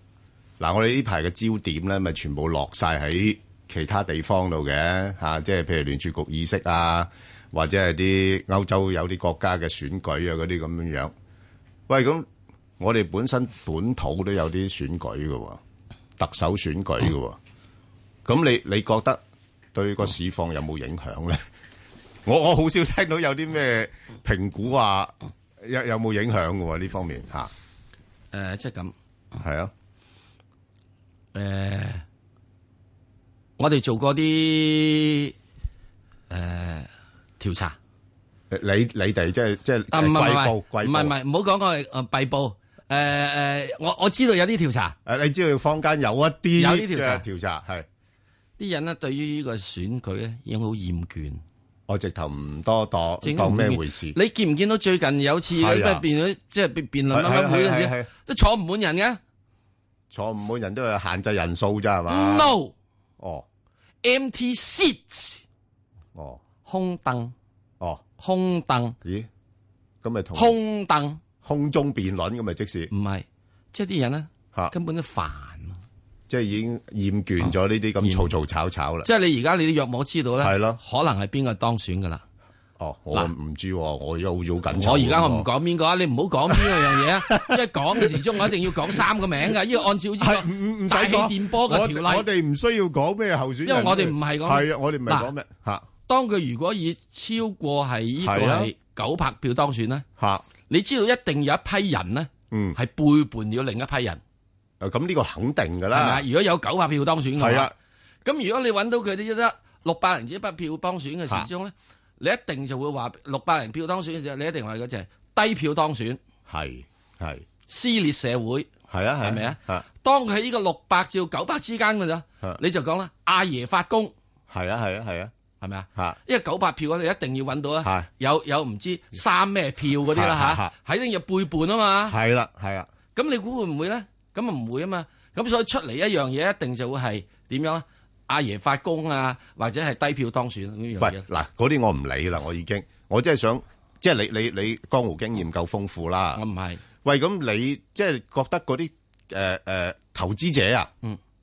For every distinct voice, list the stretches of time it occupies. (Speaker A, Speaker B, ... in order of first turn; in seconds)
Speaker A: 0.6-11.1, 11.9-12.2, 12.8-15.6, 16.2-17.4, 18.2-19.2, 19.7-21.4, 22.2-27.5, 29.4-29.7, 38.5-41.1, 45.0-47.9, 51.9-54.1, 55.6-56.0, 57.1-58.1, 60.1-62.5, 63.2-63.4, 70.0-70.6, 71.4-72.9, 76.3-79.1, 80.4-80.8, 82.8-85.5, 86.5-88.2, 90.2-95.8, 98.2-98.7, 100.2-100.5, 102.5-102.8, 104.8-106.2, 107.4-107.7, 116.5-117.4, 118.9-119.8, 124.5-125.3, 130.1-130.7, 132.1-132.9, 141.0-146.4, 147.0-150.9
Speaker B: 28.3-28.9, 31.3-32.0, 33.6-35.3, 36.3-36.9, 37.4-37.8, 39.9-45.0, 46.5-47.2, 48.6-51.4, 53.2-59.2, 62.1-62.7, 64.0-65.4, 66.6-67.3, 68.2-69.0, 70.3-71.2, 72.9-75.8, 77.4-78.3, 79.0-82.2, 84.7-92.3, 93.6-95.3, 96.1-100.0, 100.7-104.2, 105.9-107.7, 108.2-116.2, 117.7-118.7, 119.2-124.1, 125.6-132.2, 133.1-141.2, 146.3-146.8